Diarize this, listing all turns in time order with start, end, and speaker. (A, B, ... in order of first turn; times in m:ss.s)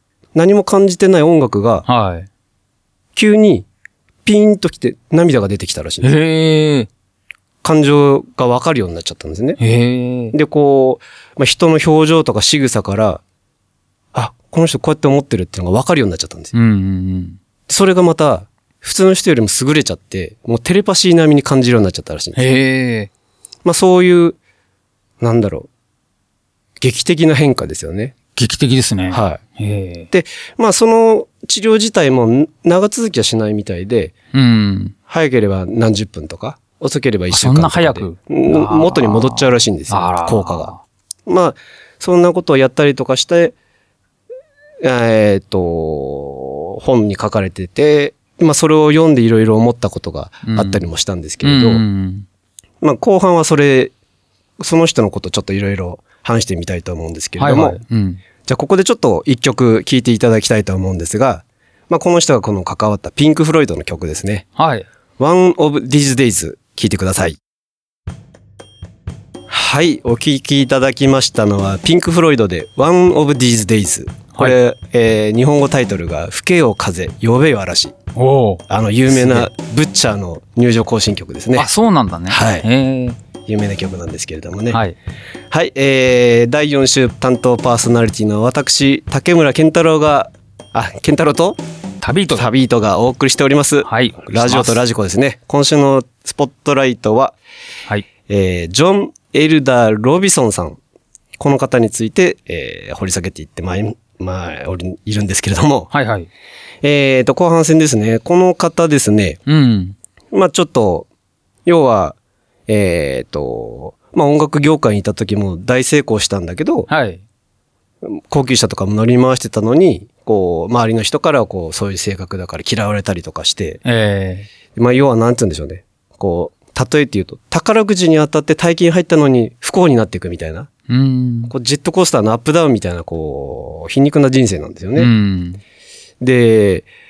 0:00.3-0:01.8 A
0:01.8-0:02.3 B
0:03.1-0:03.7 A
0:04.2-0:06.1 A
0:06.0-0:06.9 B
0:07.6-0:09.6 A
0:09.6-0:10.3 B
0:10.3-0:13.2 A
0:14.1-0:16.5 A
0:16.5-0:17.4 B
0:17.7-0:22.4 A
0:22.4-0:23.1 B
0:23.6-0:24.4 A
0:25.2-0:25.7 A
0:26.8-0:28.1 A
0:28.4-0:30.1 B
0:29.1-0:29.4 A
0:30.1-0:34.1 A
0:34.3-0:34.9 B
0:35.1-0:40.7 A
0:37.3-0:40.8 B
0:41.3-0:43.5 A
0:44.8-0:51.8 A
0:50.4-0:50.8 B
0:51.4-0:52.2 B
0:52.8-0:53.9 A
0:54.6-0:57.8 A
0:57.4-0:58.2 B
0:58.4-1:04.4 A
1:04.6-1:04.8 B
1:05.2-1:07.4 A
1:09.5-1:17.9 A
1:18.2-1:19.5 B
1:18.7-1:21.7 A
1:21.5-1:23.2 B
1:22.3-1:22.6 A
1:23.4-1:24.8 A
1:24.7-1:25.0 B
1:25.5-1:31.6 A
1:32.0-1:32.5 B
1:32.3-1:37.4 A
1:33.8-1:34.8 B
1:38.3-1:40.8 A
1:41.4-1:45.9 A
1:45.9-1:46.3 B
1:46.8-1:49.4 A
1:49.5-1:50.0 B
1:50.3-1:51.1 A
1:51.6-1:52.2 A
1:52.7-1:56.9 A
1:56.9-1:57.2 B
1:58.0-2:03.8 A
2:03.8-2:04.5 B
2:04.7-2:10.7 A
2:10.9-2:11.5 B
2:11.5-2:15.1 A
2:15.0-2:15.6 B
2:16.2-2:16.9 A